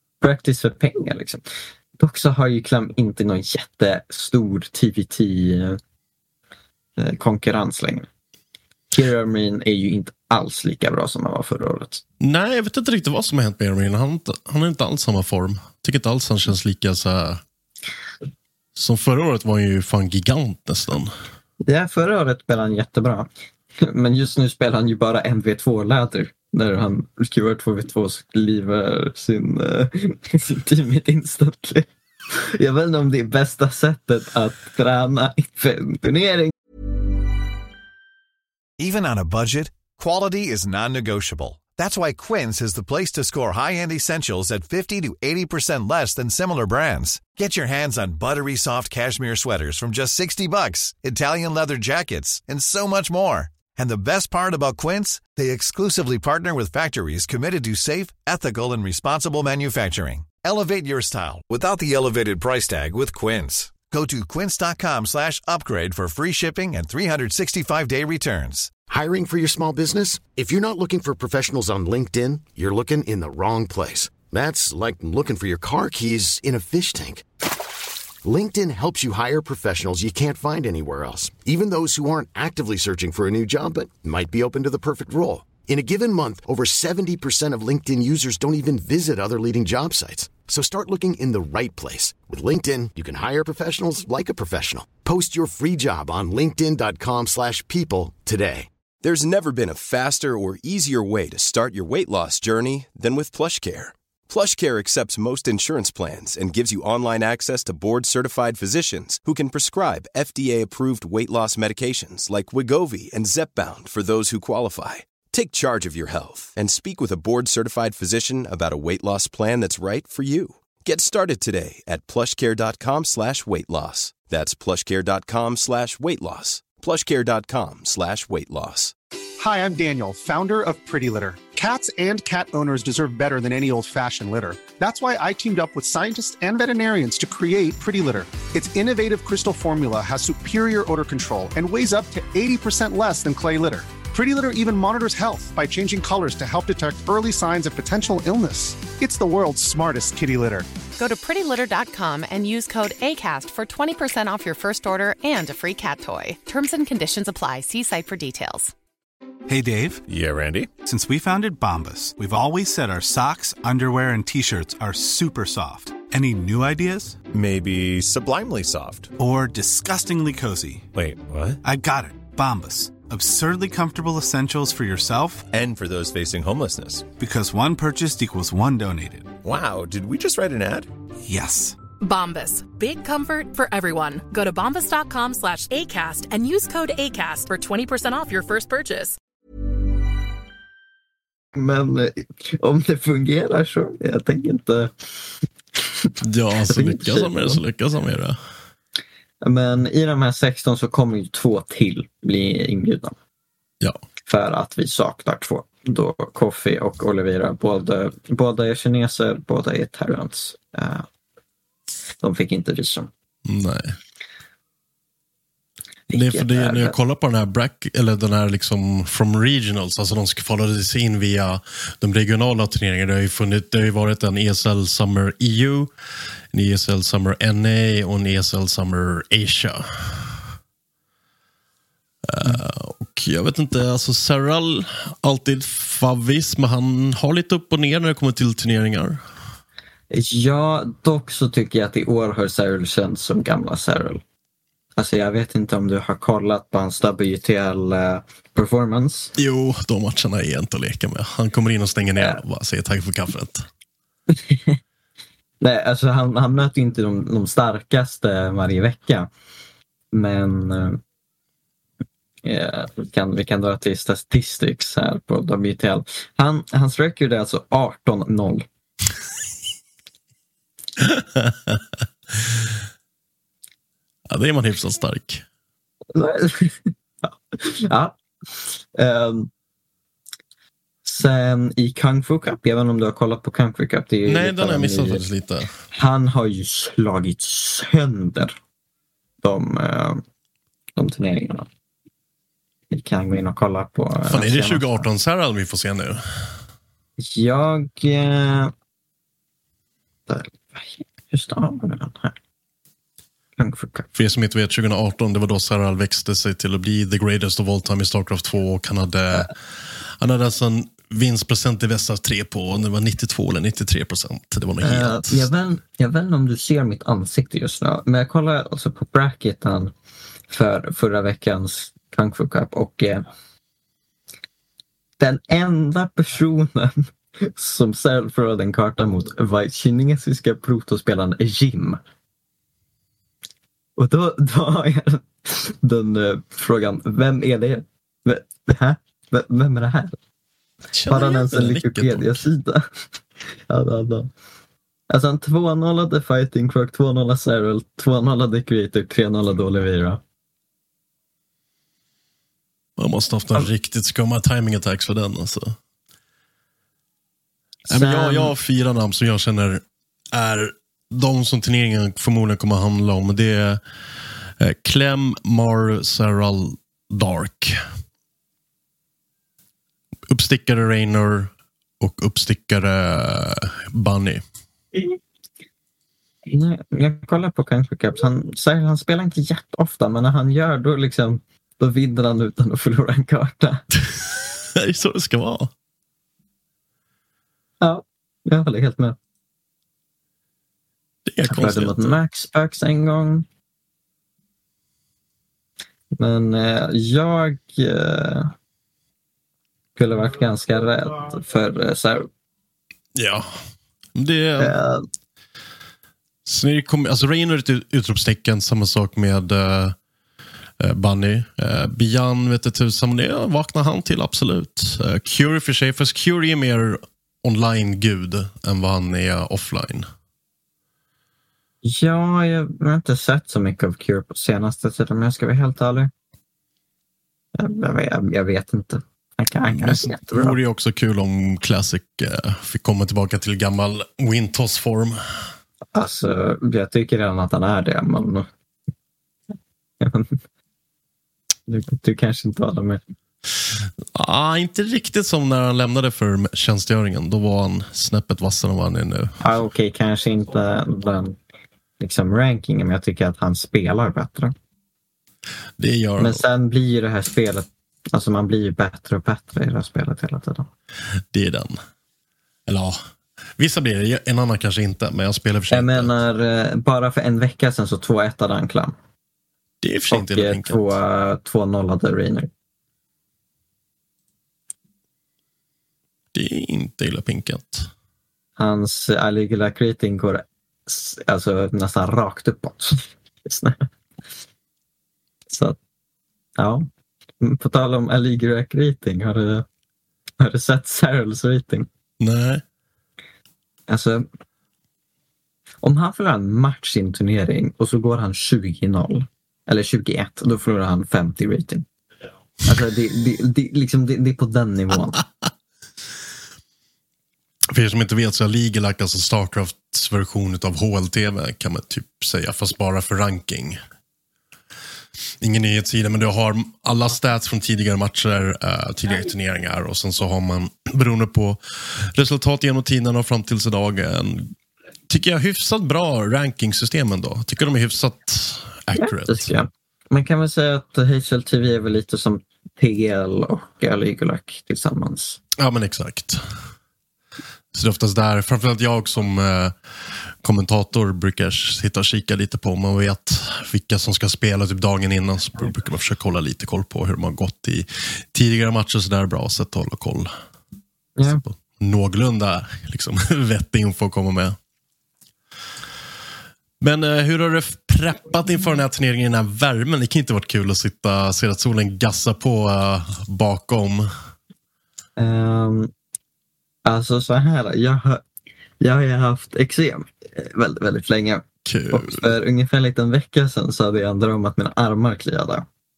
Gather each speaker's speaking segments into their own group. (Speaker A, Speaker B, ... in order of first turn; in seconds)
Speaker A: 0.2-1.4, 2.0-5.8, 7.0-8.1, 8.9-12.0, 21.7-23.3, 23.8-36.5, 191.6-194.9, 196.7-197.6, 199.4-203.2, 204.3-211.1, 212.2-213.1, 216.1-216.9, 240.1-244.2, 245.0-249.3, 254.3-254.8, 255.6-259.3, 260.1-261.0, 262.4-268.6, 276.1-279.5, 281.1-285.2, 285.9-288.6, 289.4-290.2, 291.0-291.7, 292.9-295.1, 297.2-298.7, 300.3-302.4, 303.6-304.1, 314.8-319.9, 320.5-323.3, 325.2-332.0, 334.0-340.2, 341.1-342.8, 343.7-344.3, 345.1-350.2, 357.9-358.5, 376.5-383.8, 387.8-389.2, 391.4-393.5, 396.2-398.5, 400.0-402.3, 404.6-405.1, 421.8-426.1, 427.6-430.6, 435.9-438.5, 440.0-440.4, 441.7-443.0, 449.4-451.4, 452.0-454.5, 456.2-460.7, 465.7-469.0, 470.1-472.5, 478.6-483.9, 485.5-485.8, 486.6-486.9, 487.4-489.7, 490.4-491.9, 493.9-494.3, 495.8-501.9, 502.7-505.2, 529.0-535.4, 551.2-551.4, 565.2-565.9, 566.9-568.2, 568.8-575.7
Speaker B: 12.2-17.4, 18.8-21.1, 196.2-198.4, 213.5-214.0, 216.1-225.9, 226.5-230.3, 232.3-239.2, 249.4-253.7, 271.0-271.8, 274.3-275.4, 284.3-285.7, 294.3-296.2, 304.1-309.5, 310.2-315.5, 340.9-342.4, 353.0-355.8, 357.9-363.8, 364.6-367.8, 370.3-374.4, 384.0-385.7, 391.3-392.1, 403.1-403.5, 404.1-404.8, 406.5-409.9, 410.8-420.1, 429.7-435.2, 444.1-449.4, 455.8-456.4, 461.3-461.8, 462.7-463.0, 463.6-466.2, 469.8-471.0, 476.4-477.9, 492.2-492.6, 507.7-513.8, 515.4-524.5, 525.1-529.5, 535.6-536.4, 537.7-539.7, 540.4-550.3, 551.2-554.6, 556.8-564.1, 571.6-572.3
Speaker C: 38.8-68.7
Speaker D: 68.9-77.2, 78.2-98.7
Speaker E: 99.0-128.9
Speaker F: 129.4-150.7
Speaker G: 151.0-158.7
Speaker H: 159.5-160.0, 160.8-167.2, 169.2-170.9, 171.6-175.4, 177.2-179.3, 181.2-181.8
Speaker I: 160.1-160.7, 167.3-169.1, 170.9-171.6, 175.5-177.1, 179.4-180.9
Speaker J: 182.0-189.2